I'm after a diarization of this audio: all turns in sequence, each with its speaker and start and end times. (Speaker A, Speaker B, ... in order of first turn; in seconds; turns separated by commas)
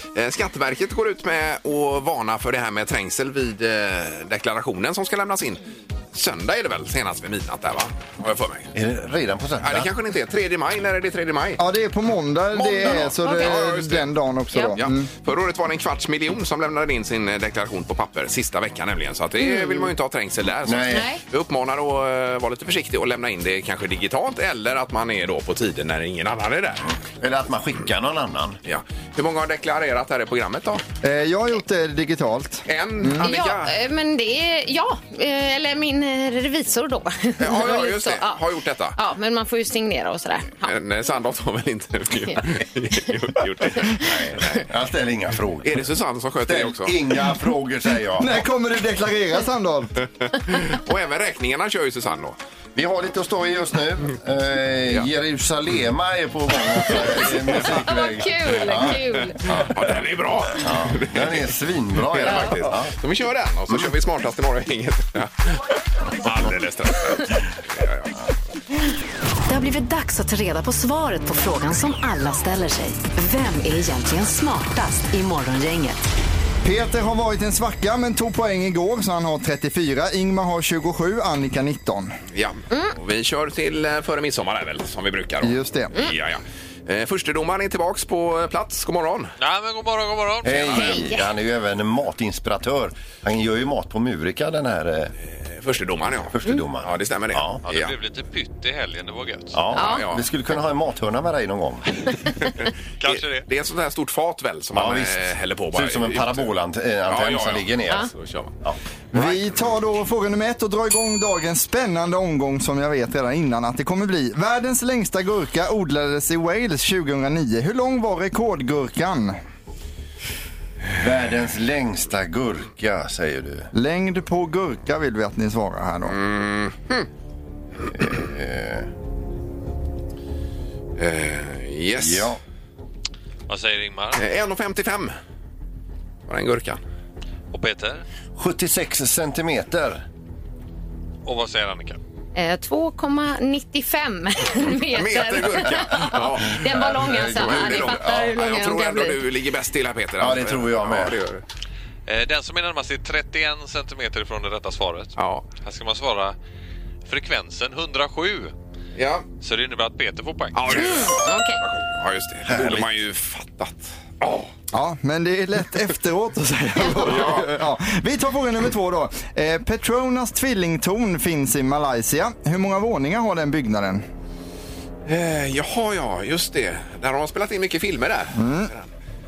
Speaker A: 0.1-5.6, Speaker A: 6.1-8.7, Speaker B: 8.8-9.9, Speaker A: 9.6-11.6, Speaker C: 11.6-15.1, Speaker A: 12.5-14.1, Speaker D: 12.9-13.6, Speaker A: 14.8-26.9, Speaker D: 19.4-19.9, Speaker B: 20.6-21.1, Speaker D: 20.9-21.2, Speaker B: 27.1-28.6, Speaker A: 28.6-30.8, Speaker C: 31.0-33.2, Speaker A: 32.7-33.7, Speaker D: 33.2-38.4, Speaker A: 37.4-39.0, Speaker D: 39.0-40.7, Speaker A: 40.6-44.7, Speaker B: 44.0-45.9, Speaker A: 45.6-47.2, Speaker B: 46.5-48.4, Speaker C: 48.2-49.9, Speaker A: 50.4-52.4, Speaker B: 52.8-59.8, Speaker A: 56.9-57.3, Speaker D: 57.5-59.4, Speaker A: 58.9-61.5, Speaker B: 60.5-62.9, Speaker A: 62.1-68.2, Speaker D: 62.2-62.6, Speaker E: 69.5-76.0, Speaker C: 76.6-82.2, Speaker A: 82.3-89.3, Speaker C: 85.4-85.9, Speaker F: 89.4-91.0, Speaker B: 90.4-95.1, Speaker D: 90.7-91.3, Speaker A: 95.3-97.9, Speaker B: 96.3-97.6, Speaker F: 97.6-99.6, Speaker B: 99.5-102.1, Speaker D: 99.7-100.1, Speaker A: 99.8-100.2, Speaker F: 103.0-103.5, Speaker A: 103.0-106.5, Speaker B: 104.7-105.2, Speaker B: 105.7-108.1, Speaker A: 107.1-108.6, Speaker A: 109.1-109.5, Speaker C: 109.1-119.4, Speaker B: 120.9-123.7, Speaker C: 123.7-126.2, Speaker A: 126.1-127.1, Speaker B: 127.8-128.9, Speaker A: 131.0-132.3, Speaker B: 132.0-132.4, Speaker F: 133.5-134.2, Speaker A: 134.2-135.1, Speaker A: 136.3-136.8, Speaker F: 137.5-138.0, Speaker B: 138.4-140.0, Speaker F: 141.2-142.0, Speaker D: 142.3-149.2, Speaker A: 144.9-151.4, Speaker B: 145.4-148.3, Speaker B: 150.2-151.2, Speaker F: 152.1-156.4, Speaker A: 155.2-155.4, Speaker F: 157.1-158.5, Speaker A: 158.9-159.2, Speaker F: 159.4-160.9, Speaker A: 160.5-164.5, Speaker D: 160.7-161.6, Speaker B: 162.5-162.9, Speaker C: 164.7-174.0, Speaker A: 167.0-167.5, Speaker A: 175.1-178.9, Speaker C: 178.3-178.7